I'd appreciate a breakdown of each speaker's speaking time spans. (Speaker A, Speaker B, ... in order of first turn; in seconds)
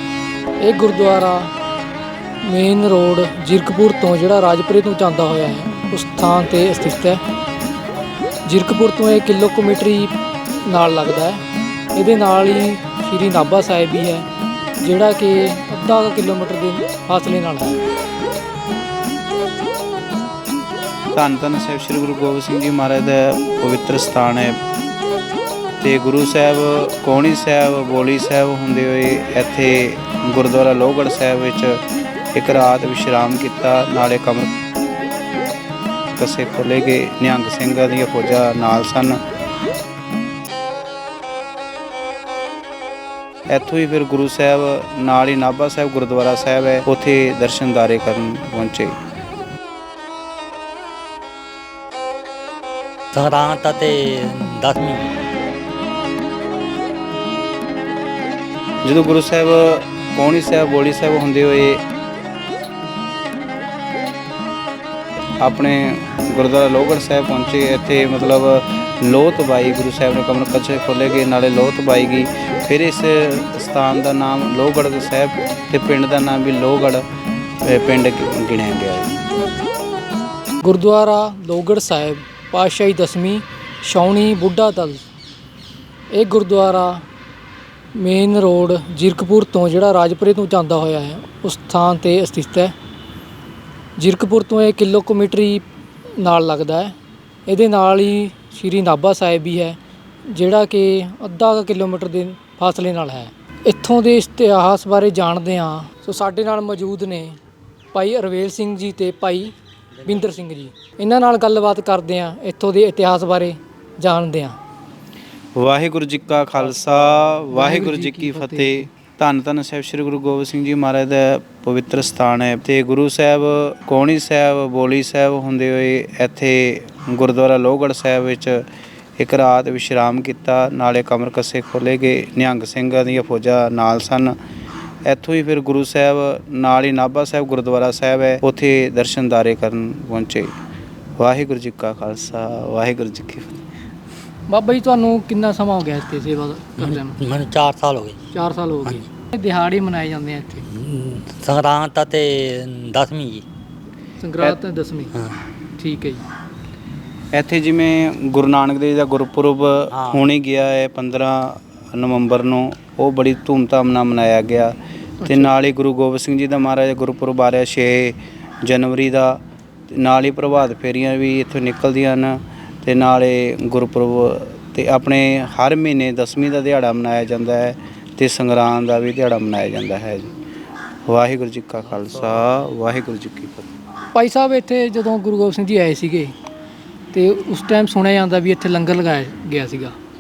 Speaker A: 0.6-1.5, 2.5-7.2, 8.5-10.1, 10.7-11.4, 12.0-14.2, 14.8-17.8, 80.6-85.1, 86.1-87.0, 88.0-92.7, 94.0-95.6, 96.2-96.9, 97.5-99.8, 100.3-107.4, 107.9-109.5, 110.0-114.6, 117.5-118.9, 144.5-147.2, 148.3-150.7, 154.2-155.1, 155.8-156.2, 165.2-165.5, 184.1-186.3, 187.1-189.9
Speaker B: 21.1-24.6, 25.8-31.8, 32.4-34.5, 36.1-39.2, 43.5-49.0, 58.8-61.8, 65.4-77.0, 77.6-79.2, 115.6-128.7, 129.2-134.3, 135.1-140.5, 141.2-143.6, 157.3-164.8, 165.3-180.3, 181.1-183.7
Speaker C: 53.1-55.1, 146.8-148.2, 150.7-153.4, 159.9-160.3, 182.0-182.6